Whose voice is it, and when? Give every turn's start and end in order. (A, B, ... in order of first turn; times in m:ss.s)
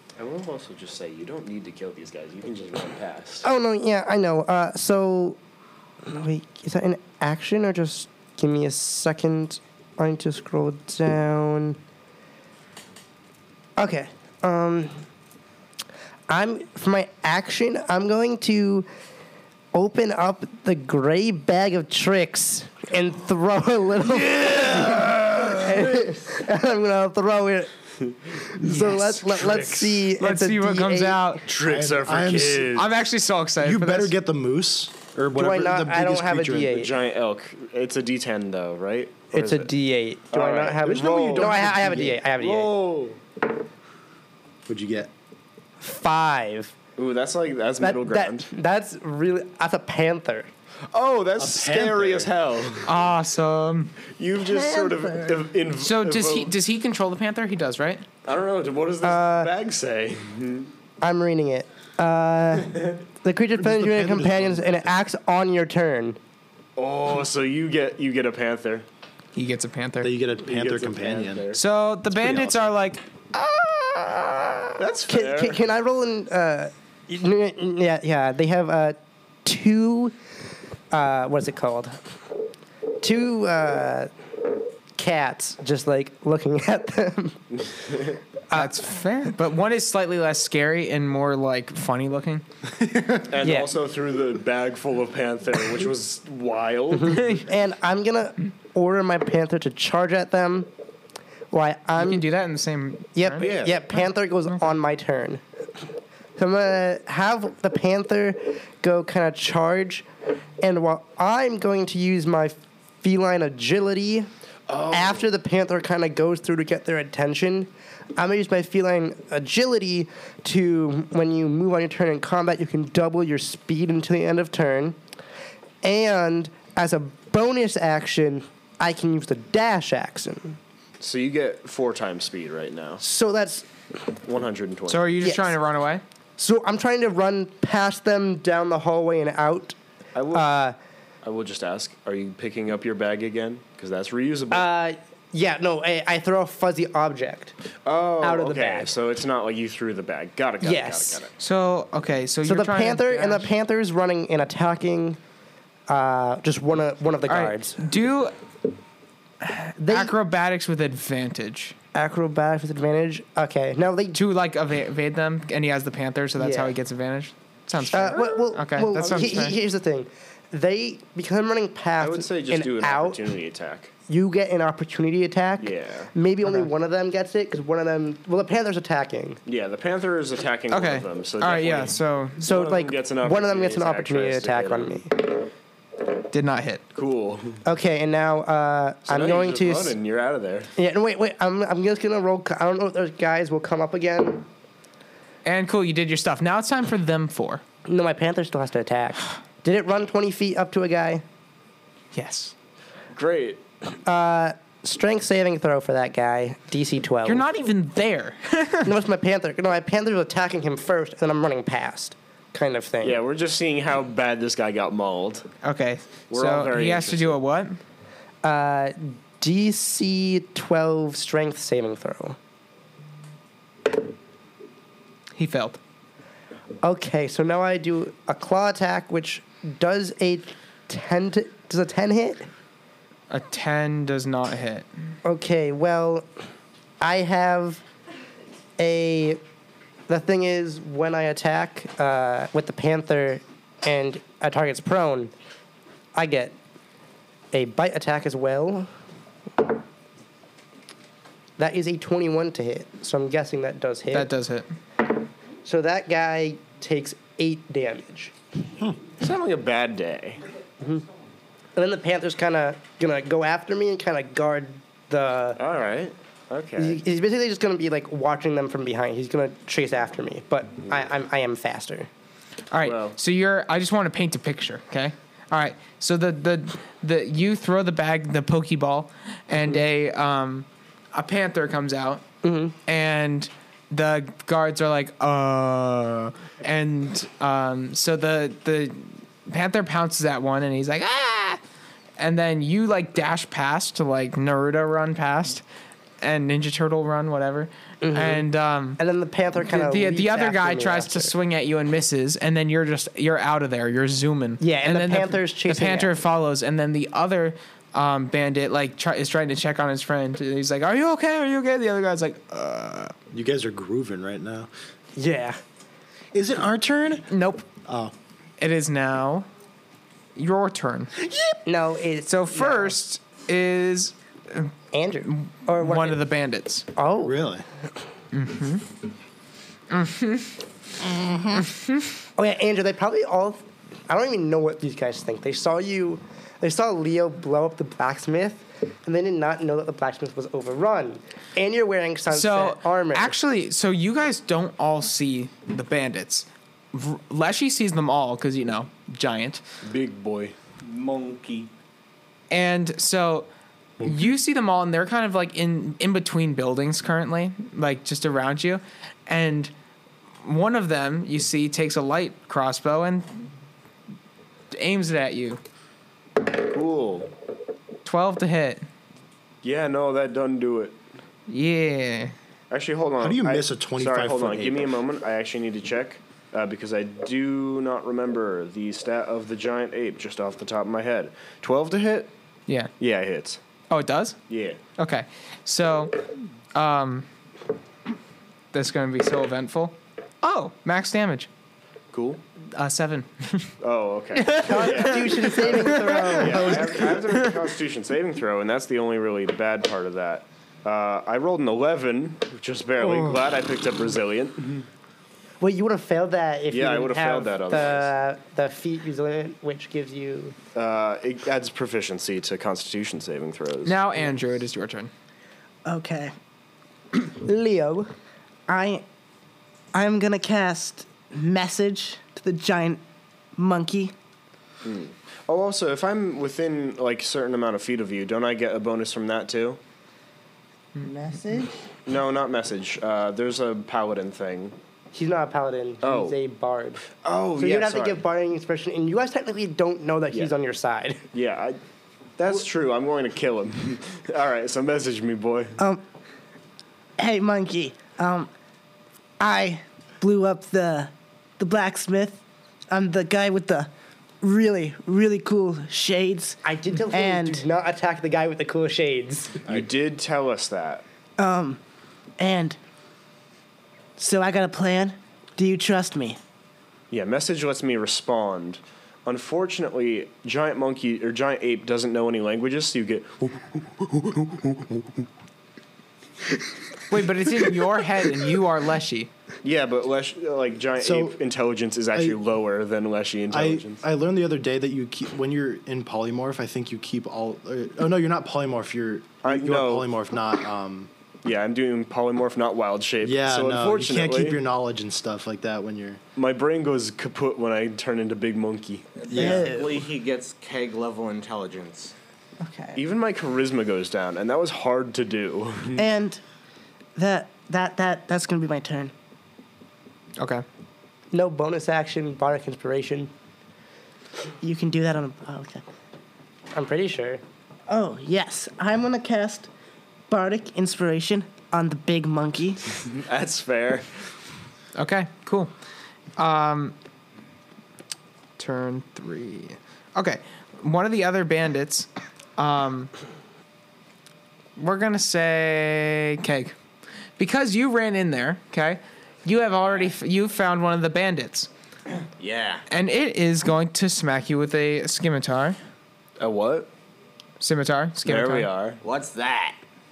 0:00.2-0:03.4 A
0:03.4-0:05.4 B
0:06.0-0:11.8 B
0:13.8-0:14.9 B
0:16.3-0:18.9 B
0:19.7-0:27.7 B
0:24.2-0:25.6 A
0:28.3-0:31.4 B
0:28.6-0:29.3 C
0:29.3-0:30.0 A
0:30.2-0:31.4 C
0:31.4-0:32.9 A
0:31.6-0:32.8 D
0:32.8-0:34.2 C
0:33.6-0:36.9 D
0:35.4-0:36.9 B
0:36.7-0:39.7 A
0:39.3-0:42.7 B
0:40.3-0:43.2 A
0:40.8-0:42.2 D
0:44.7-0:45.1 D
0:45.8-0:46.7 B
0:47.0-0:48.5 A
0:47.8-0:50.5 B
0:50.9-0:52.9 A
0:51.4-0:52.3 D
0:52.8-0:53.9 C
0:54.2-0:56.5 A
0:54.5-0:55.3 B
0:55.8-0:58.0 C
0:58.2-1:00.7 A
0:59.0-0:59.5 B
1:01.0-1:06.2 B
1:03.6-1:04.9 D
1:06.8-1:08.8 A
1:09.3-1:10.1 C
1:10.0-1:11.4 D
1:10.4-1:11.6 A
1:11.6-1:14.8 C
1:12.2-1:12.6 D
1:14.8-1:15.6 A
1:15.1-1:20.2 B
1:20.9-1:22.0 B
1:23.0-1:24.1 B
1:25.0-1:27.4 B
1:28.5-1:32.4 C
1:32.8-1:33.3 D
1:33.3-1:37.3 A
1:33.4-1:33.7 B
1:36.9-1:40.7 B
1:37.1-1:37.4 C
1:41.5-1:42.3 B
1:42.0-1:43.5 C
1:43.2-1:45.4 B
1:43.4-1:43.9 A
1:44.5-1:44.8 C
1:46.4-1:50.1 B
1:50.6-1:54.3 B
1:54.7-1:55.2 A
1:54.9-2:05.0 B
2:05.8-2:10.6 B
2:11.0-2:13.0 A
2:13.0-2:13.7 B
2:14.3-2:15.1 A
2:14.9-2:16.0 C
2:15.2-2:15.5 B
2:16.4-2:19.8 B
2:20.2-2:20.5 A
2:20.3-2:20.8 B
2:21.2-2:24.7 A
2:24.5-2:27.5 B
2:27.8-2:31.3 A
2:28.2-2:28.9 B
2:30.6-2:31.2 B
2:31.4-2:33.5 C
2:32.4-2:35.2 B
2:35.9-2:37.8 B
2:37.3-2:38.3 C
2:39.4-2:41.8 C
2:39.8-2:40.1 B
2:41.9-2:44.2 B
2:44.1-2:49.6 C
2:46.4-2:46.8 B
2:47.9-2:53.2 B
2:49.0-2:49.4 A
2:52.0-2:53.9 A
2:54.1-2:59.4 B
2:55.6-2:56.1 A
2:59.4-3:05.0 A
3:00.7-3:02.4 C
3:02.4-3:05.3 B
3:06.3-3:06.8 C
3:06.9-3:07.6 A
3:07.6-3:09.9 B
3:09.1-3:10.7 A
3:10.8-3:14.4 B
3:15.4-3:17.6 C
3:17.8-3:21.2 B
3:22.1-3:22.5 C
3:23.1-3:23.6 A
3:24.0-3:27.4 B
3:27.2-3:28.9 C
3:28.8-3:33.2 B
3:33.0-3:35.5 A
3:35.6-3:37.8 C
3:36.3-3:37.4 A
3:38.4-3:42.4 B
3:45.4-3:45.8 C
3:46.8-3:52.4 B
3:53.3-3:54.9 C
3:55.2-3:56.3 B
3:57.0-3:57.8 B
3:58.8-3:59.4 B
4:00.1-4:05.3 B
4:06.1-4:06.6 B
4:07.5-4:08.9 B
4:11.6-4:14.3 B
4:14.1-4:14.7 C
4:15.6-4:18.3 B
4:19.2-4:20.4 A
4:21.8-4:25.6 B
4:25.6-4:27.0 A
4:26.8-4:32.1 B
4:32.7-4:42.2 C
4:32.8-4:33.2 A
4:42.4-4:42.8 B
4:42.8-4:51.6 C
4:52.2-4:55.6 C
4:56.2-4:59.0 C
4:58.0-4:58.5 B
4:59.0-5:01.3 B
4:59.6-5:13.1 C
5:04.6-5:06.2 B
5:13.3-5:14.7 D
5:15.2-5:15.6 B
5:16.3-5:17.3 D
5:17.3-5:17.7 C
5:17.8-5:18.1 D
5:18.6-5:19.5 C
5:20.4-5:21.1 C
5:21.7-5:23.0 B
5:22.3-5:24.7 C
5:24.9-5:26.2 B
5:25.3-5:26.9 C
5:27.0-5:27.4 B
5:27.2-5:27.6 D
5:28.3-5:28.9 C
5:29.9-5:30.6 C
5:31.0-5:31.7 D
5:31.6-5:32.1 C
5:32.4-5:43.3 B
5:42.3-5:49.6 C
5:49.8-5:50.6 A
5:50.8-5:51.7 E
5:52.5-5:53.5 C
5:54.0-5:59.7 C
6:00.4-6:03.5 C
6:04.7-6:05.6 C
6:06.4-6:07.3 A
6:08.0-6:08.9 C
6:09.6-6:11.0 A
6:11.5-6:12.3 C
6:12.7-6:22.3 A
6:13.2-6:14.9 D
6:23.0-6:23.6 A
6:23.9-6:24.4 C
6:24.5-6:24.8 A
6:25.0-6:27.3 C
6:28.7-6:31.5 C
6:32.1-6:32.4 A
6:32.7-6:33.7 C
6:33.8-6:44.8 A
6:34.4-6:36.4 C
6:34.6-6:37.0 B
6:36.5-6:37.2 D
6:45.6-6:50.6 B
6:46.7-6:48.1 A
6:50.8-6:54.0 A
6:53.8-6:55.1 C
6:55.8-6:56.3 F
6:57.3-6:58.1 B
6:58.7-6:59.0 F
6:59.9-7:03.0 F
7:03.6-7:04.1 F
7:04.8-7:09.8 A
7:11.0-7:11.7 F
7:12.1-7:14.8 A
7:15.1-7:17.0 B
7:16.0-7:16.4 A
7:17.1-7:18.2 A
7:17.6-7:21.2 B
7:21.3-7:21.8 A
7:22.4-7:25.8 A
7:27.2-7:28.5 F
7:29.4-7:36.6 F
7:36.6-7:39.7 B
7:37.1-7:37.7 F
7:39.7-7:41.0 A
7:41.4-7:41.8 F
7:42.4-7:42.8 F
7:44.2-7:46.4 F
7:47.1-7:53.7 A
7:54.1-7:55.0 D
7:57.1-7:59.3 C
7:59.6-8:04.0 A
8:01.0-8:01.4 D
8:03.5-8:11.1 D
8:09.4-8:10.1 A
8:11.4-8:14.6 A
8:13.2-8:16.2 D
8:16.4-8:19.4 A
8:19.2-8:22.1 E
8:19.3-8:19.7 D
8:19.4-8:19.9 F
8:22.6-8:23.0 F
8:22.9-8:26.0 A
8:26.0-8:26.4 F
8:27.2-8:29.1 F
8:30.4-8:30.6 C
8:31.3-8:33.3 B
8:34.6-8:35.8 F
8:36.7-8:37.4 B
8:37.9-8:39.7 F
8:40.3-8:42.8 F
8:43.1-8:44.3 A
8:44.9-8:45.7 C
8:46.4-8:47.0 C
8:48.6-8:53.1 C
8:54.8-8:56.7 C
8:57.4-9:01.7 C
9:02.4-9:02.8 E
9:02.9-9:05.8 C
9:06.4-9:06.9 A
9:07.6-9:08.7 C
9:08.2-9:09.0 A
9:09.0-9:09.8 E